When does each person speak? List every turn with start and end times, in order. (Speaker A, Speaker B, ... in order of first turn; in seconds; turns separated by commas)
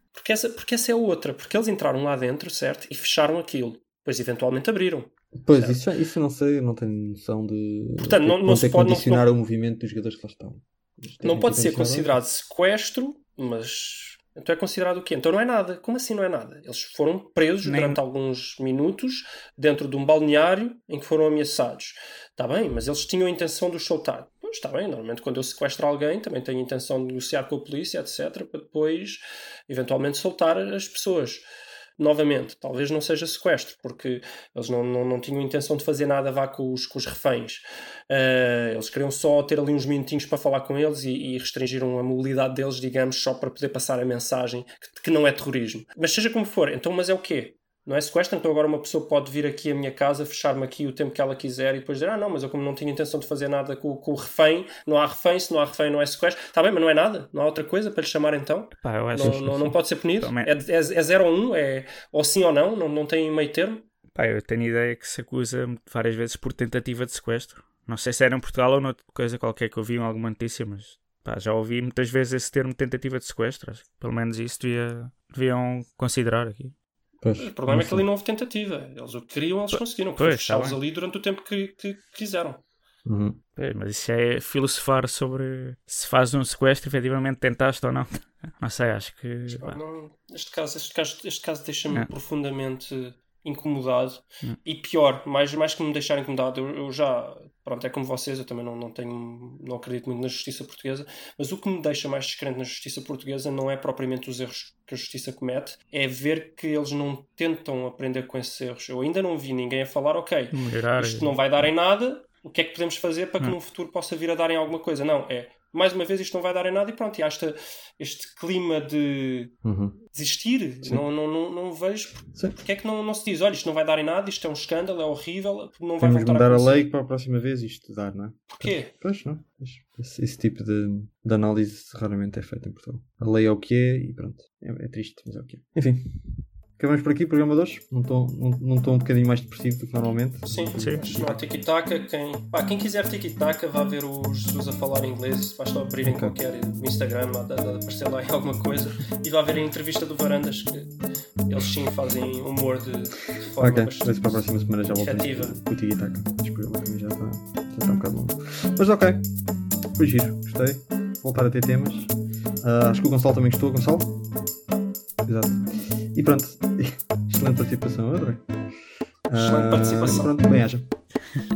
Speaker A: 0.1-5.8, Speaker B: 5.4-12.2, Speaker A: 8.0-9.2, Speaker A: 11.2-31.4, Speaker C: 17.6-18.0, Speaker A: 32.0-63.8, Speaker C: 58.8-60.5, Speaker B: 59.2-59.5, Speaker C: 64.1-76.7, Speaker B: 77.2-78.1, Speaker A: 77.4-82.6, Speaker C: 79.7-80.8, Speaker B: 83.0-83.4, Speaker C: 83.6-89.8, Speaker A: 89.5-119.5, Speaker C: 110.5-111.3, Speaker B: 119.6-120.0, Speaker A: 120.1-126.8, Speaker B: 122.3-122.6, Speaker B: 126.0-141.3, Speaker A: 128.5-128.9, Speaker A: 140.5-150.9, Speaker C: 140.7-141.3, Speaker B: 146.0-146.3, Speaker A: 151.5-154.4, Speaker B: 153.6-159.2, Speaker A: 154.9-155.6, Speaker B: 159.9-164.1, Speaker B: 165.2-168.5, Speaker B: 169.3-170.9, Speaker A: 169.3-170.3